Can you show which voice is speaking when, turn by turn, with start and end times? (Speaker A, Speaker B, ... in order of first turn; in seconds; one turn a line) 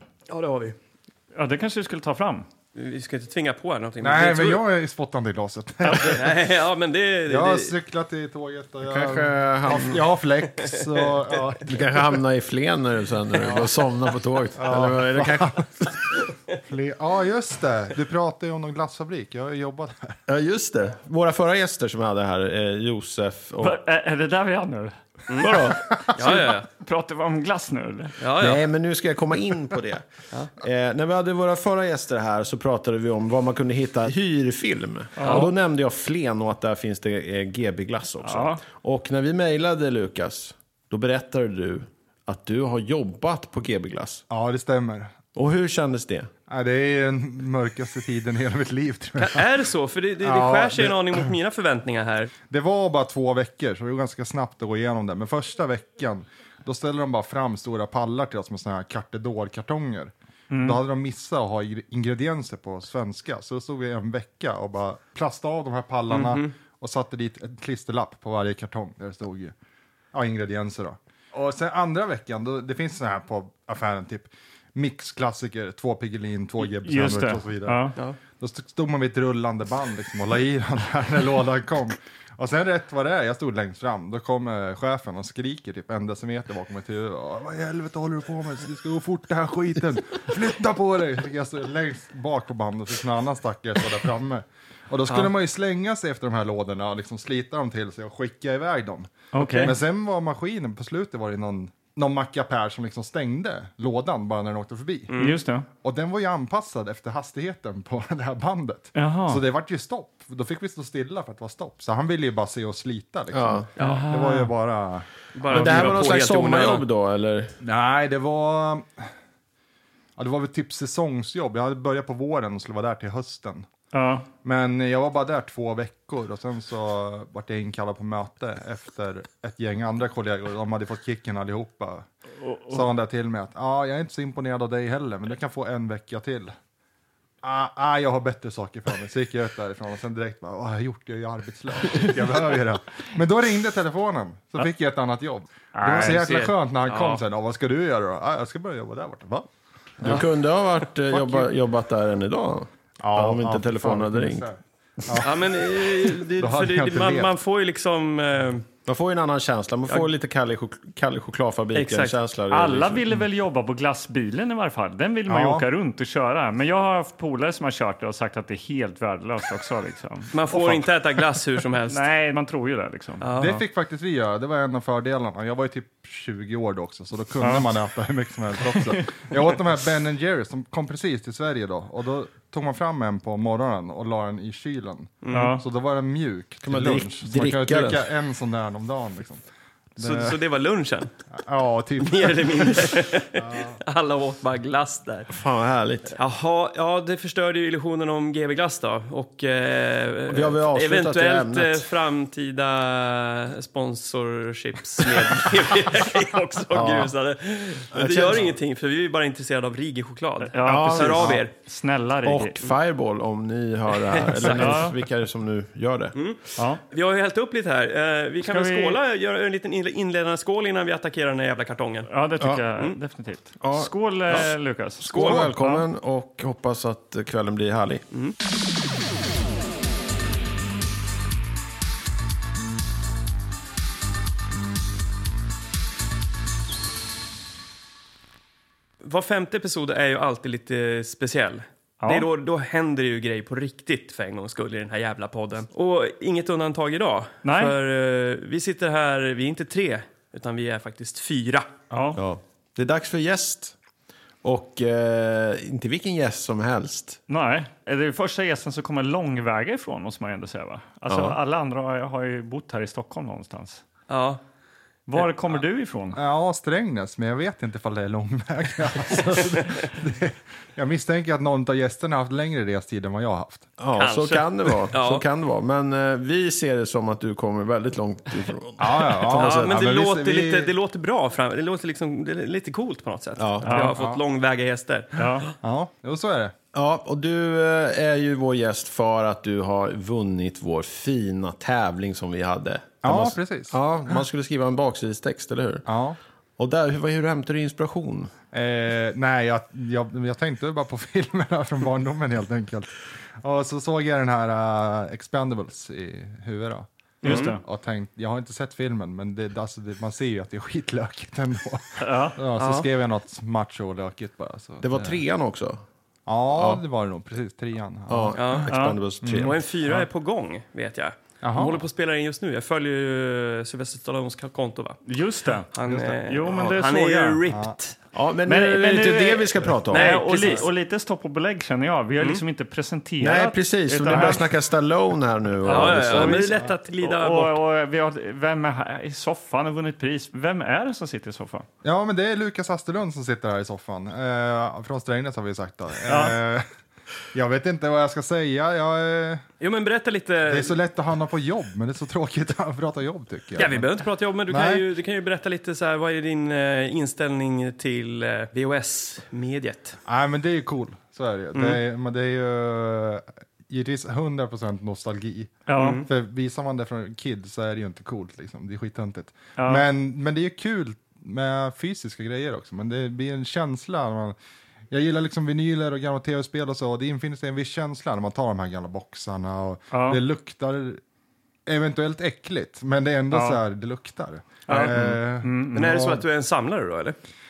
Speaker A: 0.3-0.8
Speaker B: 1.3-2.5
Speaker A: 2.8-4.6
Speaker C: 4.0-6.4
Speaker B: 5.8-6.2
Speaker A: 6.0-7.7
Speaker C: 7.3-12.2
Speaker D: 8.8-10.0
Speaker A: 10.6-11.5
Speaker D: 11.7-16.0
Speaker C: 14.6-20.2
Speaker D: 20.3-23.8
Speaker B: 23.6-24.9
Speaker A: 25.3-25.6
Speaker D: 25.4-25.8
Speaker C: 25.9-26.5
Speaker A: 26.1-26.7
Speaker B: 26.2-28.2
Speaker A: 28.2-28.6
Speaker D: 28.4-30.0
Speaker D: 30.6-44.2
Speaker B: 35.2-35.5
Speaker B: 38.2-38.6
Speaker C: 44.3-45.1
Speaker D: 45.4-46.3
Speaker C: 46.5-49.5
Speaker A: 49.2-52.3
Speaker C: 50.2-51.3
Speaker C: 52.5-69.5
Speaker B: 60.5-60.8
Speaker A: 66.1-66.5
Speaker C: 70.1-105.1
Speaker B: 76.6-78.0
Speaker B: 99.3-99.8
Speaker A: 105.1-105.4
Speaker B: 105.2-105.7
Speaker C: 105.8-116.2
Speaker B: 109.0-109.4
Speaker D: 113.3-113.7
Speaker A: 113.8-114.1
Speaker B: 113.8-114.5
Speaker A: 115.3-116.8
Speaker D: 115.5-117.6
Speaker C: 117.6-119.1
Speaker C: 120.2-123.7
Speaker B: 123.9-124.3
Speaker C: 124.4-132.1
Speaker B: 132.4-132.8
Speaker C: 132.7-136.6
Speaker C: 137.4-149.5
Speaker B: 145.8-146.5
Speaker A: 146.1-146.3
Speaker A: 146.9-147.2
Speaker C: 150.0-150.2
Speaker D: 150.0-154.5
Speaker C: 151.1-151.5
Speaker C: 153.0-157.3
Speaker A: 155.2-158.7
Speaker D: 158.9-163.1
Speaker A: 161.8-162.2
Speaker B: 162.5-170.7
Speaker C: 165.3-165.7
Speaker A: 170.3-172.1
Speaker B: 171.9-173.3
Speaker A: 173.2-173.6
Speaker C: 173.4-189.4
Speaker B: 177.4-177.7
Speaker B: 178.7-179.2
Speaker A: 185.2-185.6
Speaker B: 185.3-185.6
Speaker D: 186.6-188.1
Speaker C: 190.0-190.4
Speaker A: 190.0-191.1
Speaker C: 191.3-193.8
Speaker A: 192.0-195.3
Speaker D: 195.3-196.2
Speaker A: 196.2-211.5
Speaker D: 200.3-201.9
Speaker D: 206.7-207.1
Speaker D: 207.9-208.5
Speaker B: 210.5-212.6
Speaker D: 210.6-211.4
Speaker D: 212.2-216.2
Speaker A: 214.1-214.9
Speaker B: 214.4-215.0
Speaker A: 216.2-222.1
Speaker B: 218.4-219.0
Speaker B: 222.1-225.9
Speaker D: 222.4-222.6
Speaker D: 223.6-224.5
Speaker D: 225.0-228.0
Speaker A: 225.1-225.5
Speaker A: 239.0-251.7
Speaker B: 242.0-242.3
Speaker B: 247.4-247.8
Speaker B: 251.9-252.2
Speaker D: 252.2-253.8
Speaker D: 254.4-257.2
Speaker B: 257.3-263.8
Speaker D: 261.1-261.4
Speaker A: 264.1-264.4
Speaker B: 265.1-266.2
Speaker A: 265.1-265.6
Speaker C: 266.1-273.7
Speaker D: 273.8-279.8
Speaker A: 274.0-275.2
Speaker C: 278.8-280.7
Speaker A: 279.3-285.5
Speaker D: 283.4-283.7
Speaker B: 283.6-283.9
Speaker C: 283.9-284.2
Speaker B: 285.2-285.5
Speaker C: 285.6-286.5
Speaker D: 286.7-295.9
Speaker C: 293.0-293.8
Speaker C: 295.9-296.2
Speaker D: 296.6-298.3
Speaker C: 298.5-315.2
Speaker B: 307.2-307.6
Speaker A: 307.2-307.6
Speaker B: 312.0-312.4
Speaker A: 312.6-312.9
Speaker D: 314.8-315.8
Speaker C: 316.3-318.4
Speaker D: 316.6-316.8
Speaker D: 318.1-319.6
Speaker A: 318.4-318.7
Speaker B: 318.7-319.0
Speaker C: 319.2-319.5
Speaker A: 319.4-325.0
Speaker C: 321.4-321.8
Speaker B: 325.1-327.4
Speaker A: 325.7-328.0
Speaker C: 327.5-327.8
Speaker D: 328.1-330.2
Speaker B: 328.5-334.4
Speaker A: 329.9-330.7
Speaker D: 333.2-336.4
Speaker C: 334.1-334.4
Speaker B: 335.6-341.7
Speaker A: 335.7-337.6
Speaker C: 341.8-346.6
Speaker B: 346.1-346.4
Speaker C: 347.3-349.4
Speaker A: 349.6-350.8
Speaker C: 350.4-353.9
Speaker A: 353.6-360.0
Speaker C: 354.5-354.9
Speaker C: 360.1-374.4
Speaker A: 361.6-361.8
Speaker B: 365.7-366.1
Speaker A: 365.8-366.1
Speaker B: 369.6-369.8
Speaker C: 374.9-381.0
Speaker B: 379.9-380.2
Speaker C: 381.7-386.2
Speaker B: 383.3-383.6
Speaker B: 384.7-386.1
Speaker A: 384.7-385.0
Speaker A: 385.7-387.2